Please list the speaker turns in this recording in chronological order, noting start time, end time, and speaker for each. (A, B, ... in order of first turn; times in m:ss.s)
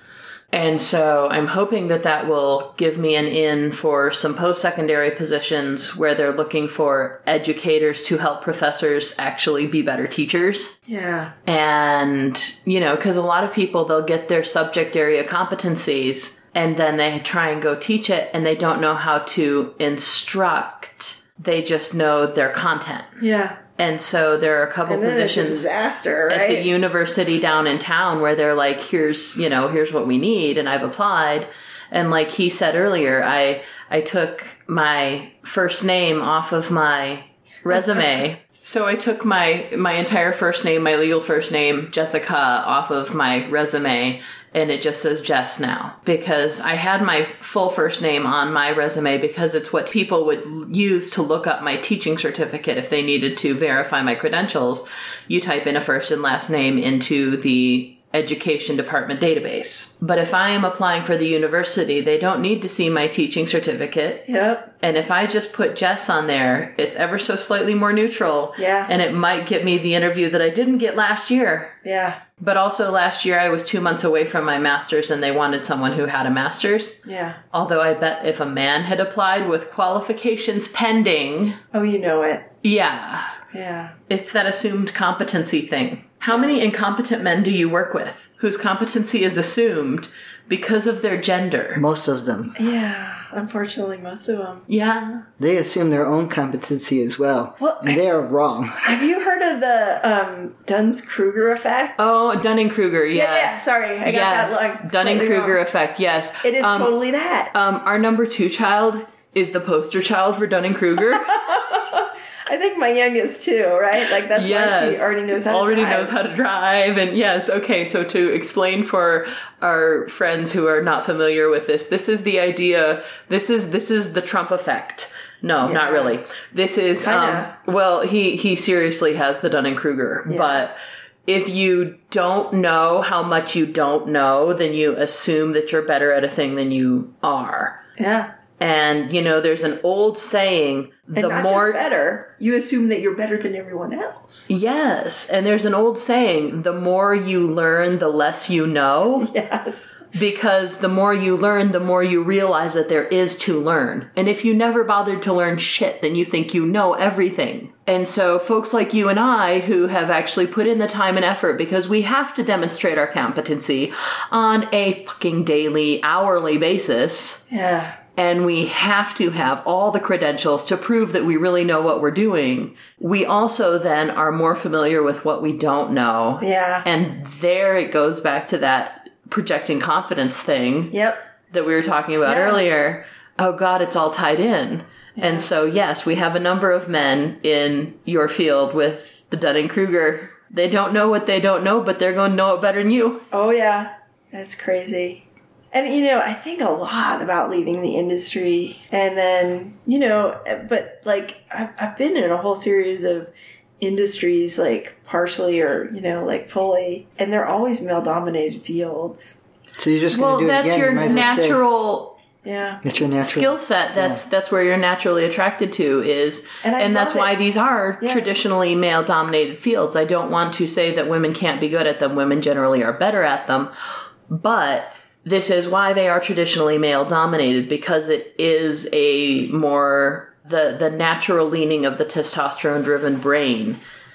0:00.5-0:10.7 A
0:10.9-0:11.3 B
0:11.5-0:23.1 A
0:23.2-0:23.6 B
0:23.8-0:25.7 A
0:24.9-0:26.7 B
0:26.3-1:04.3 A
0:37.7-0:38.1 B
1:04.3-1:04.7 B
1:04.8-1:11.8 A
1:08.6-1:08.9 B
1:11.8-1:12.2 B
1:12.4-1:17.0 A
1:17.1-1:17.4 B
1:17.5-1:21.6 A
1:21.7-1:22.5 B
1:22.6-1:23.4 A
1:23.5-1:24.0 B
1:24.1-1:31.8 A
1:31.8-1:32.6 C
1:32.6-1:34.7 B
1:34.7-1:35.2 A
1:35.4-1:39.0 C
1:37.6-1:38.0 B
1:38.8-1:42.1 B
1:42.0-1:47.0 A
1:43.1-1:45.6 B
1:46.4-1:47.5 B
1:47.5-1:51.8 A
1:51.4-1:56.1 B
1:54.2-2:10.8 A
2:05.6-2:06.2 B
2:07.0-2:07.5 B
2:10.3-2:10.6 B
2:11.3-2:17.8 A
2:18.0-2:18.3 B
2:18.6-2:21.8 A
2:21.2-2:24.5 B
2:24.5-2:29.3 A
2:29.2-2:30.0 B
2:30.1-2:47.4 A
2:47.5-2:48.0 B
2:48.2-3:01.0 A
2:56.4-2:56.9 B
3:00.9-3:01.2 B
3:01.5-3:13.3 A
3:02.3-3:02.6 B
3:05.2-3:05.5 B
3:13.3-3:29.4 B
3:29.8-3:31.6 C
3:30.1-3:32.2 A
3:32.4-3:32.8 B
3:32.8-3:34.2 C
3:33.2-3:43.7 A
3:36.6-3:37.4 B
3:38.0-3:38.3 B
3:44.3-3:53.8 A